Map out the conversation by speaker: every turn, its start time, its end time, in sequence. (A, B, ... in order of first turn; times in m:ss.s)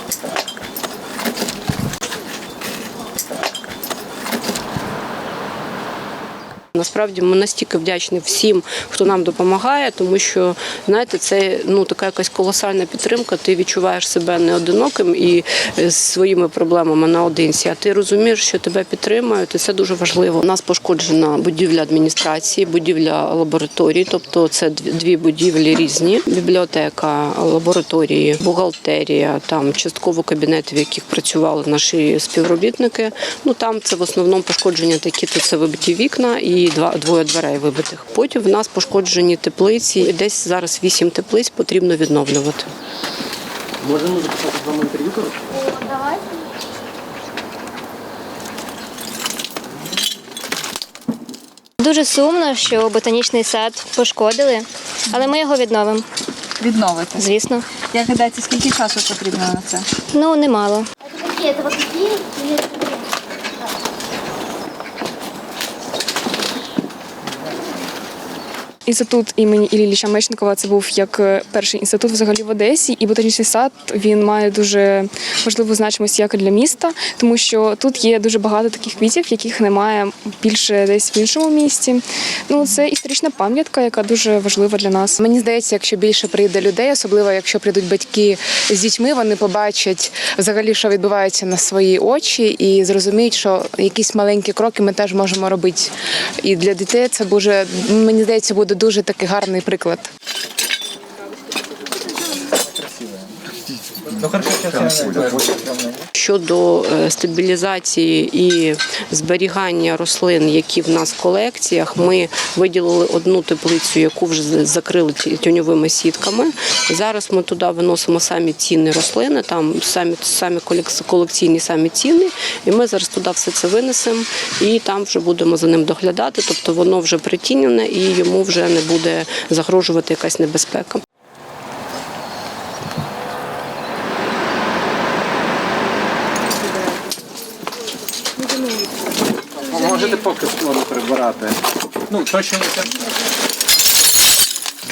0:06.8-0:42.7 A
0:43.8-0:45.3 B
0:45.7-0:46.2 C
0:51.8-0:56.1 D
0:56.6-1:00.0 E
0:57.2-0:57.8 D
1:00.1-1:00.9 D
1:00.4-1:00.8 F
1:01.3-1:02.9 C
1:08.9-1:25.2 F
1:25.2-1:40.1 G
1:44.2-1:46.0 B
1:46.2-2:11.0 A
2:19.8-2:21.6 B
2:22.1-2:22.9 B